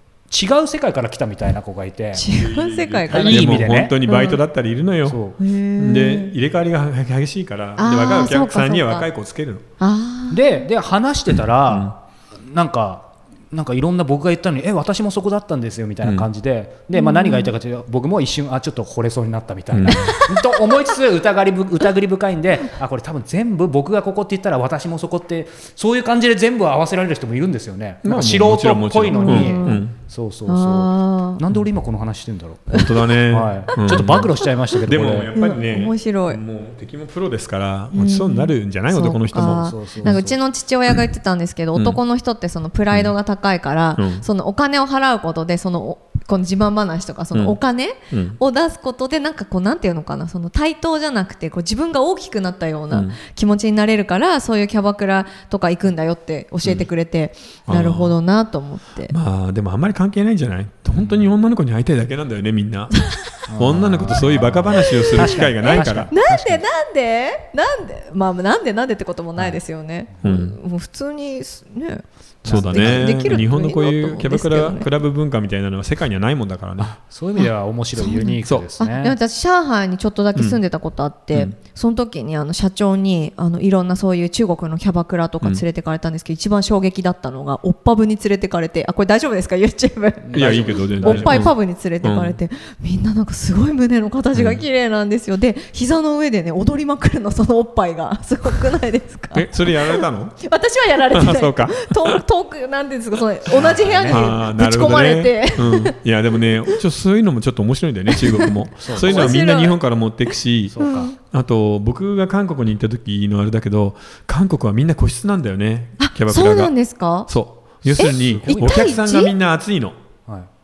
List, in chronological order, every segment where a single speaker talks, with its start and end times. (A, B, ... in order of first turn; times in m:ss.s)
0:00.3-0:02.3 A
0:02.2-0:04.4 B
0:02.3-0:05.2 C
0:03.1-0:03.9 A
0:05.0-0:05.4 A
0:05.4-0:06.3 B
0:05.8-0:09.6 C
0:07.8-0:09.1 B
0:09.8-0:10.6 B
0:10.3-0:35.3 A
0:16.9-0:17.5 B
0:19.7-0:20.2 C
0:19.9-0:20.6 B
0:28.0-0:29.9 C
0:29.1-0:29.8 B
0:30.5-0:31.4 B
0:32.7-0:40.2 C
0:33.7-0:34.2 B
0:35.3-0:36.4 B
0:37.9-0:59.1 B
0:39.4-0:40.4 A
0:41.7-0:42.0 C
0:44.0-0:44.2 C
0:48.1-0:48.4 C
0:52.9-0:53.2 C
0:57.7-0:58.2 C
0:59.1-1:03.0 C
1:00.9-1:01.3 A
1:03.5-1:06.6 A
1:03.6-1:06.1 C
1:04.8-1:14.9 B
1:10.2-1:10.6 C
1:12.4-1:13.4 A
1:12.4-1:16.9 C
1:16.8-1:19.2 A
1:17.4-1:46.0 B
1:30.2-1:31.5 A
1:30.3-1:32.4 C
1:34.3-1:34.6 C
1:39.3-1:40.4 C
1:41.1-1:42.2 C
1:43.5-1:44.2 A
1:44.1-1:50.8 C
1:48.1-1:49.8 B
1:48.7-1:49.3 A
1:50.7-1:51.1 A
1:50.8-1:51.1 B
1:51.3-1:56.7 C
1:56.0-1:57.3 B
1:57.3-2:00.0 C
1:57.9-1:59.3 B
1:58.0-1:59.0 A